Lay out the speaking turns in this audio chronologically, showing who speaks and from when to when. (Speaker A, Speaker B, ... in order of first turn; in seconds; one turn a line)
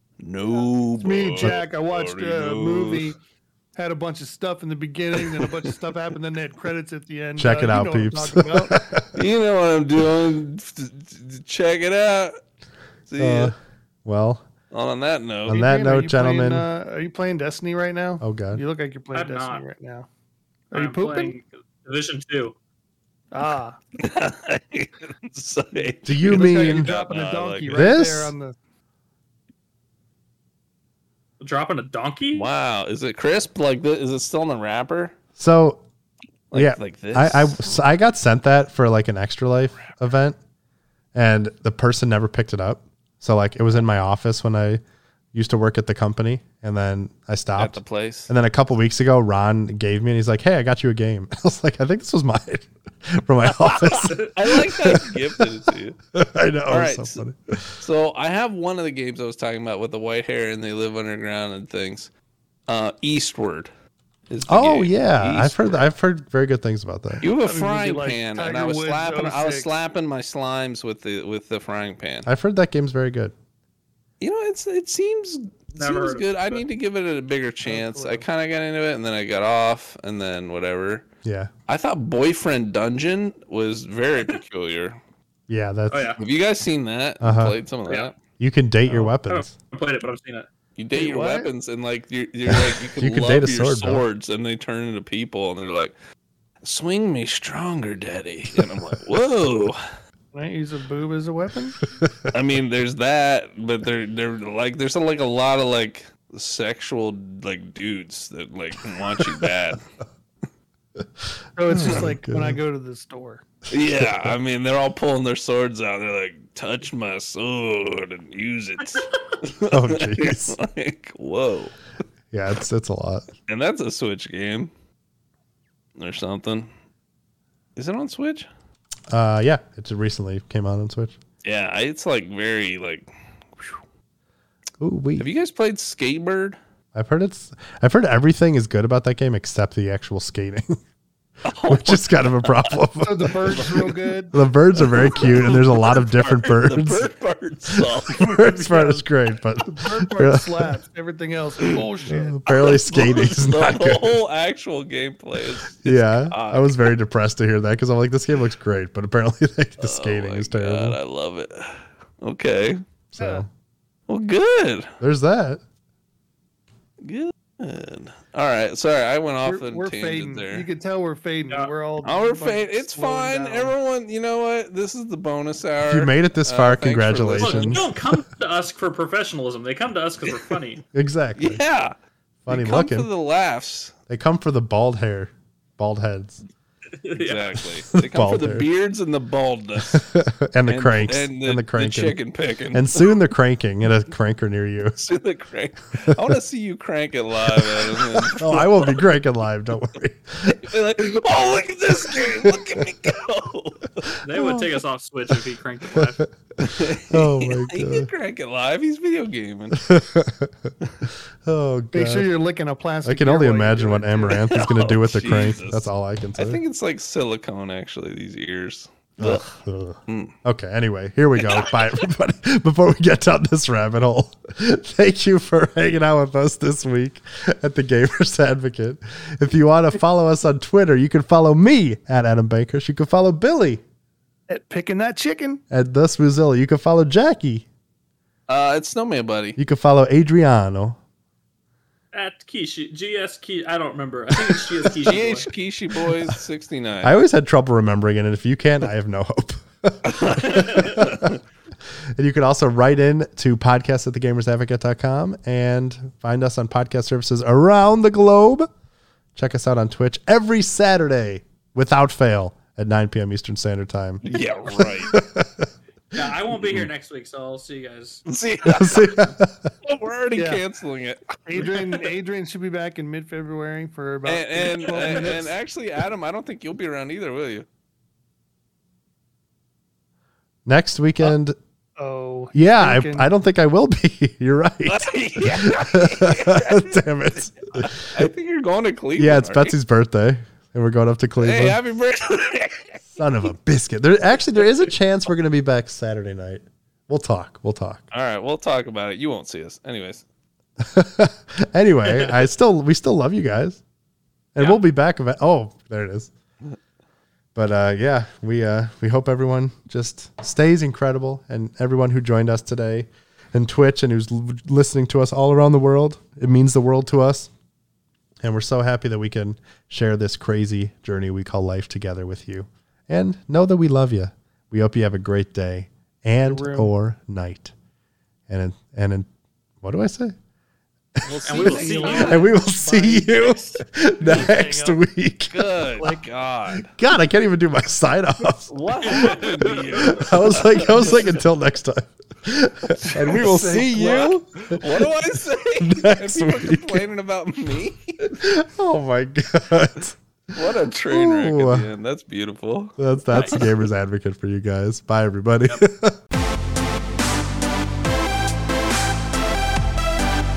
Speaker A: 0.2-3.1
Speaker B: 0.6-3.2
Speaker B: 3.8-8.8
Speaker A: 5.2-5.7
Speaker C: 7.4-9.2
Speaker A: 9.1-12.3
Speaker A: 13.1-13.5
Speaker C: 13.2-14.4
Speaker A: 14.7-15.7
Speaker C: 15.5-16.7
Speaker B: 15.5-20.1
Speaker C: 18.2-18.6
Speaker D: 19.1-19.6
Speaker B: 20.7-21.3
Speaker D: 20.7-22.6
Speaker B: 23.3-23.8
Speaker A: 24.0-27.7
Speaker C: 26.0-26.9
Speaker B: 26.1-28.6
Speaker C: 27.7-28.3
Speaker D: 31.4-32.5
Speaker A: 32.3-35.1
Speaker C: 35.4-35.8
Speaker A: 36.5-37.8
Speaker C: 36.5-40.4
Speaker C: 41.1-44.8
Speaker C: 45.3-57.8
Speaker A: 47.6-48.3
Speaker A: 53.5-56.0
Speaker A: 56.7-57.2
Speaker A: 57.8-62.1
Speaker A: 62.7-63.7
Speaker A: 64.3-65.9
Speaker C: 64.5-67.2
Speaker A: 67.2-72.3
Speaker B: 67.4-69.7
Speaker C: 72.2-73.3
Speaker A: 74.2-81.0
Speaker D: 75.8-76.6
Speaker B: 77.7-78.3
Speaker C: 81.2-81.5
Speaker A: 81.7-85.0
Speaker C: 85.5-86.2
Speaker D: 85.9-86.2
Speaker A: 86.2-88.2
Speaker C: 87.2-87.6
Speaker C: 88.4-89.5
Speaker D: 89.2-90.5
Speaker A: 90.8-95.9
Speaker B: 90.9-91.5
Speaker C: 92.5-94.0
Speaker A: 96.6-99.8
Speaker B: 100.3-101.8
Speaker C: 101.9-102.3
Speaker A: 102.3-109.8
Speaker C: 109.2-109.5
Speaker B: 111.6-113.5
Speaker C: 111.7-112.6
Speaker A: 113.7-121.8
Speaker C: 113.9-114.4
Speaker C: 119.6-120.6
Speaker C: 122.3-123.3
Speaker A: 123.5-124.7
Speaker A: 126.0-126.7
Speaker A: 127.8-128.5
Speaker C: 129.1-131.2
Speaker A: 131.4-133.8
Speaker C: 134.8-135.3
Speaker A: 135.2-136.6
Speaker C: 136.9-140.8
Speaker A: 141.5-142.8
Speaker C: 141.6-147.1
Speaker B: 143.0-144.4
Speaker A: 143.4-144.0
Speaker A: 144.8-148.4
Speaker C: 147.7-150.8
Speaker B: 148.2-149.0
Speaker B: 149.6-153.0
Speaker A: 151.6-151.9
Speaker C: 152.1-154.2
Speaker A: 152.5-156.9
Speaker C: 155.8-161.0
Speaker A: 159.8-162.8
Speaker C: 163.1-163.5
Speaker B: 163.2-163.4
Speaker A: 164.1-164.9
Speaker C: 165.0-165.6
Speaker A: 167.0-170.7
Speaker B: 169.4-173.8
Speaker A: 172.0-177.9
Speaker C: 175.8-177.9
Speaker D: 177.4-180.8
Speaker C: 180.9-181.6
Speaker A: 181.4-181.9
Speaker C: 182.5-183.1
Speaker A: 182.5-183.9
Speaker C: 184.1-186.4
Speaker D: 187.0-187.6
Speaker A: 187.1-190.1
Speaker C: 187.6-188.7
Speaker C: 189.8-192.2
Speaker A: 190.7-193.2
Speaker C: 192.7-195.0
Speaker A: 195.0-199.0
Speaker C: 197.5-200.6
Speaker A: 200.4-204.2
Speaker C: 202.4-202.8
Speaker D: 204.2-206.3
Speaker C: 204.3-204.7
Speaker C: 205.9-208.1
Speaker A: 206.6-209.9
Speaker C: 209.7-210.7
Speaker C: 211.4-212.3
Speaker B: 211.9-214.7
Speaker C: 213.0-216.6
Speaker A: 214.3-219.4
Speaker C: 219.2-233.8
Speaker A: 220.1-220.3
Speaker A: 221.4-221.9
Speaker B: 234.5-235.6
Speaker C: 235.7-237.7
Speaker A: 238.5-239.6
Speaker C: 239.6-241.0
Speaker D: 242.1-245.5
Speaker A: 244.8-247.2
Speaker C: 246.1-246.4
Speaker C: 247.0-251.4
Speaker A: 250.1-251.4
Speaker C: 252.2-258.7
Speaker C: 259.4-266.9
Speaker A: 264.2-265.2
Speaker D: 266.1-268.3
Speaker A: 268.3-269.3
Speaker C: 268.6-269.7
Speaker D: 268.8-269.2
Speaker A: 269.8-272.1
Speaker B: 270.4-270.6
Speaker B: 271.4-275.6
Speaker A: 274.2-277.7
Speaker C: 280.7-281.6
Speaker B: 282.0-283.3
Speaker C: 282.5-288.3
Speaker A: 284.9-286.9
Speaker A: 287.7-289.8
Speaker C: 289.2-291.8
Speaker A: 291.4-293.1
Speaker C: 293.1-298.1
Speaker A: 298.1-300.2
Speaker C: 300.8-303.8
Speaker D: 302.1-302.3
Speaker C: 304.6-306.3
Speaker C: 307.6-317.5
Speaker C: 318.4-327.7
Speaker B: 326.5-326.9
Speaker C: 328.5-329.3
Speaker C: 329.8-330.4
Speaker A: 331.2-332.5
Speaker D: 331.5-332.5
Speaker B: 331.5-335.0
Speaker C: 332.2-335.7
Speaker A: 335.5-336.9
Speaker C: 336.8-338.7
Speaker A: 338.7-341.4
Speaker D: 339.1-340.2
Speaker C: 339.9-345.1
Speaker B: 343.0-344.3
Speaker A: 343.4-348.4
Speaker C: 345.8-347.1
Speaker C: 348.3-351.9
Speaker A: 350.5-353.8
Speaker C: 353.0-356.2
Speaker D: 353.3-353.6